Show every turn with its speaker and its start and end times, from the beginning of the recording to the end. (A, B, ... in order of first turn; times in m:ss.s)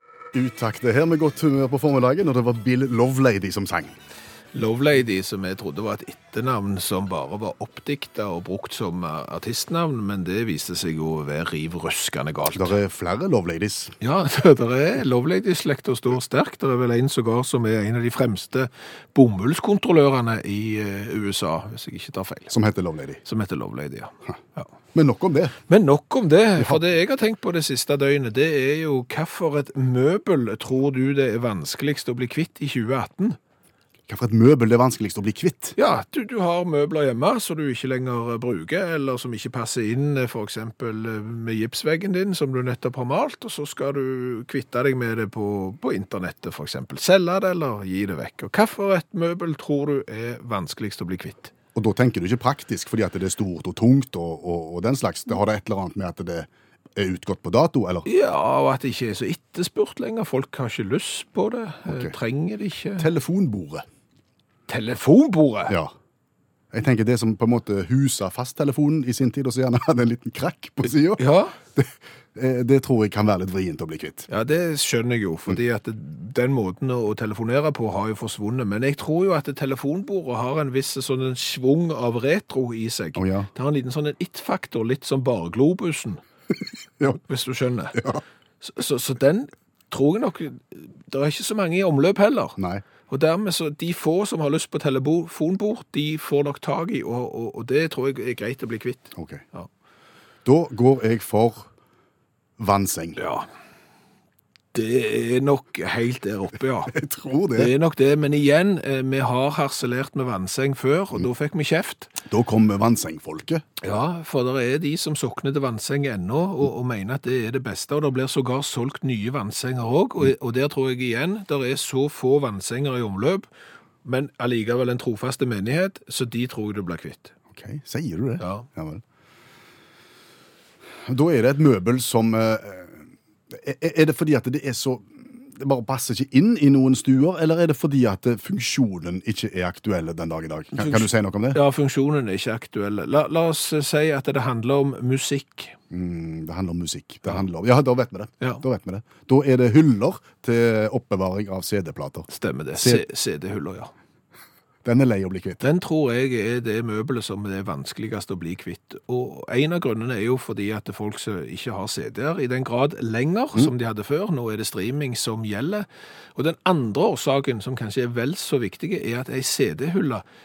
0:00.3-0:04.0 A
0:04.5-0:12.8 B
0:12.5-0:14.0 A
0:14.0-0:22.5 B
0:22.5-0:23.2 A
0:23.2-0:24.7 B
0:24.9-0:25.6 A
0:25.7-0:33.4 B
0:34.1-0:35.8 A
0:35.8-0:51.5 B
0:51.8-0:58.1 A
0:58.1-1:03.1 B
1:01.9-1:02.1 A
1:03.0-1:03.8 A
1:04.7-1:05.8 B
1:06.7-1:14.3 A
1:11.2-1:11.6 B
1:14.3-1:26.2 B
1:23.2-1:23.5 A
1:27.2-1:28.0 B
1:27.9-1:28.2 A
1:28.6-1:32.6 B
1:32.6-1:32.8 A
1:33.1-1:39.7 B
1:39.1-1:39.4 A
1:40.4-1:41.7 A
1:42.6-1:43.2 A
1:43.2-1:43.5 B
1:44.7-1:46.9 B
1:46.9-1:47.7 A
1:47.6-1:52.1 B
1:52.3-1:53.6 A
1:53.8-2:03.5 B
2:04.0-2:07.3 B
2:07.5-2:09.0 A
2:08.4-2:08.7 B
2:11.1-2:21.6 A
2:20.7-2:25.8 B
2:25.9-2:33.0 A
2:32.3-2:33.9 B
2:34.8-2:35.6 A
2:35.6-2:50.2 B